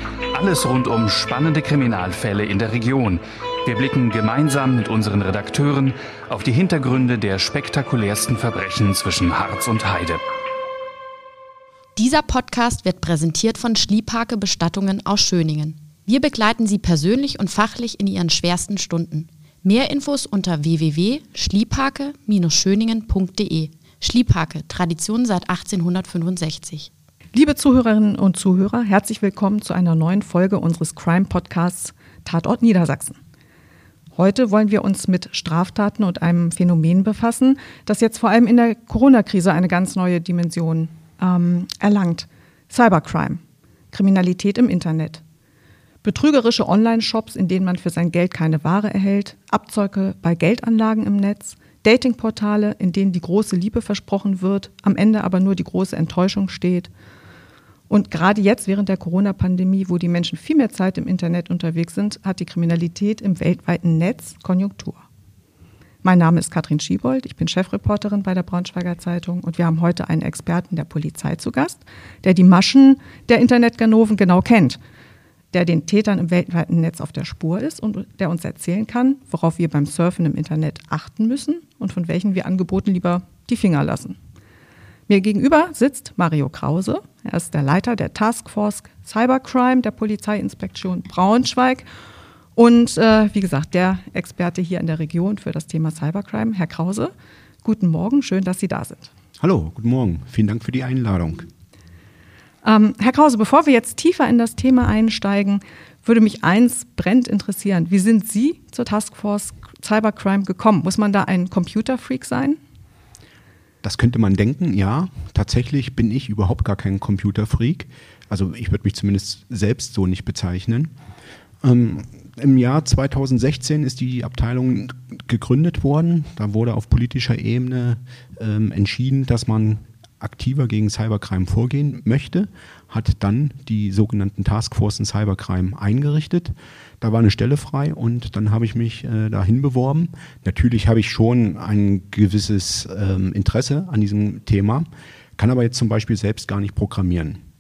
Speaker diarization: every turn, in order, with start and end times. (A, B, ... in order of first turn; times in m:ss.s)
0:00.3-0:10.2 A
0:12.0-0:26.9 B
0:27.3-0:33.2 C
0:34.2-0:43.4 C
0:43.9-0:45.2 C
0:46.0-0:56.9 C
0:57.9-1:05.0 C
1:06.0-1:14.8 C
1:15.5-1:24.2 C
1:25.1-1:31.9 C
1:32.6-1:37.1 C
1:37.6-1:39.1 C
1:39.4-1:41.5 D
1:42.6-1:52.6 C
1:53.8-2:00.9 D
2:01.6-2:27.4 D